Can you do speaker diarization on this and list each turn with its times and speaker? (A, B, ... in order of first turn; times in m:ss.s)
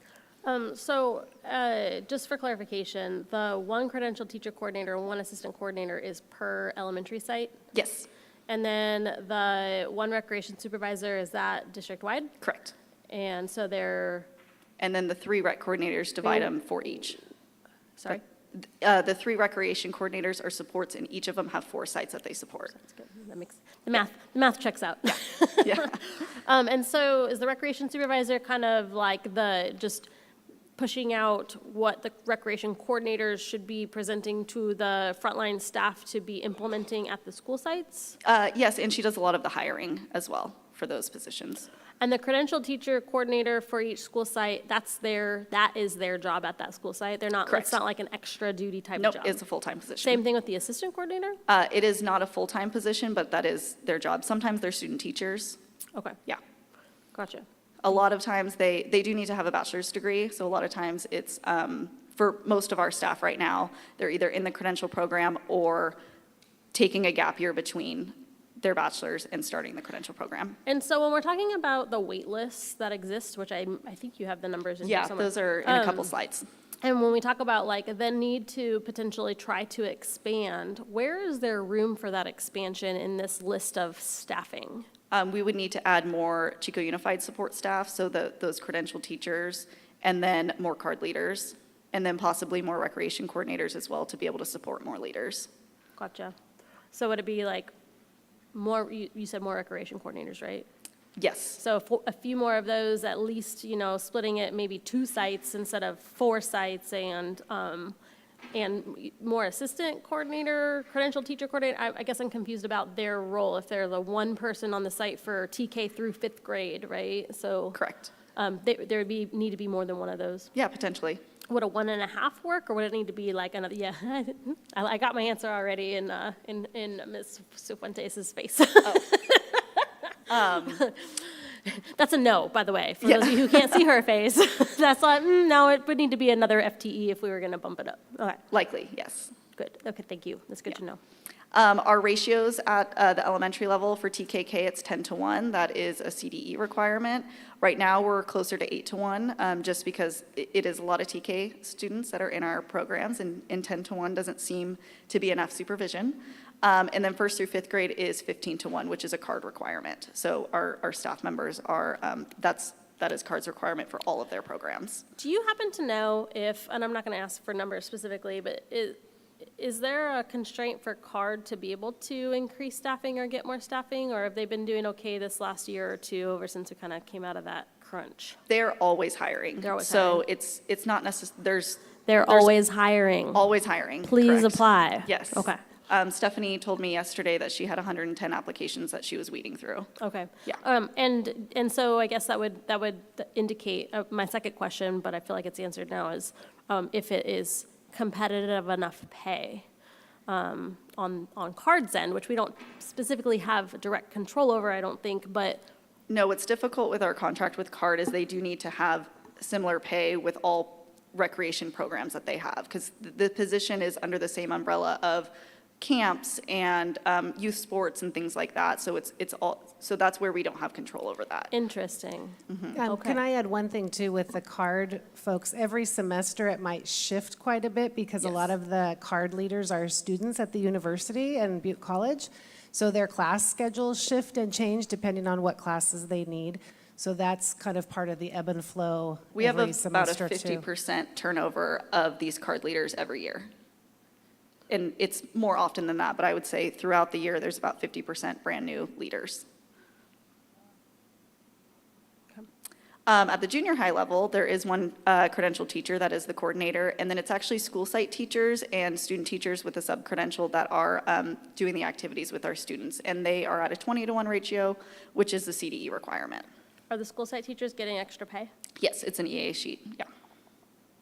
0:00.4-0:07.6 A
0:07.7-0:08.1 B
0:08.5-0:12.3 A
0:12.4-0:12.7 B
0:13.1-0:14.3 A
0:14.8-0:17.2 B
0:18.0-0:22.8 B
0:22.8-0:30.1 A
0:25.1-0:26.0 B
0:30.8-0:38.2 A
0:38.2-0:41.7 B
0:42.0-0:49.4 A
0:47.5-0:47.8 B
0:49.0-0:50.2 B
0:50.0-0:51.4 A
0:51.5-0:55.6 B
0:57.1-0:57.4 A
0:57.8-1:06.0 B
1:06.7-1:10.6 B
1:10.7-1:16.1 A
1:14.8-1:16.5 B
1:16.8-1:24.9 A
1:25.1-1:35.5 B
1:36.0-1:36.4 A
1:36.9-1:37.7 A
1:38.5-1:40.7 A
1:41.2-1:41.6 B
1:41.6-1:48.0 A
1:48.5-1:57.8 A
1:57.7-1:58.1 B
1:58.4-2:00.5 A
2:00.6-2:01.2 B
2:01.5-2:09.9 A
2:10.3-2:10.9 B
2:10.5-2:18.4 A
2:13.0-2:13.8 B
2:18.5-2:19.3 B
2:19.6-2:21.0 A
2:21.5-2:45.0 B
2:45.2-2:49.0 A
2:49.6-2:58.4 A
2:58.5-3:02.5 B
2:59.6-3:00.2 A
3:02.1-3:03.4 A
3:03.3-3:09.9 B
3:04.0-3:05.6 A
3:10.0-3:19.6 A
3:20.3-3:25.6 A
3:26.1-3:41.5 B
3:41.5-3:43.2 A
3:42.5-3:42.8 B
3:42.7-4:00.7 C
3:59.4-4:03.5 B
4:04.7-4:09.4 B
4:13.1-4:26.5 B
4:26.9-4:28.5 A
4:28.8-4:30.1 B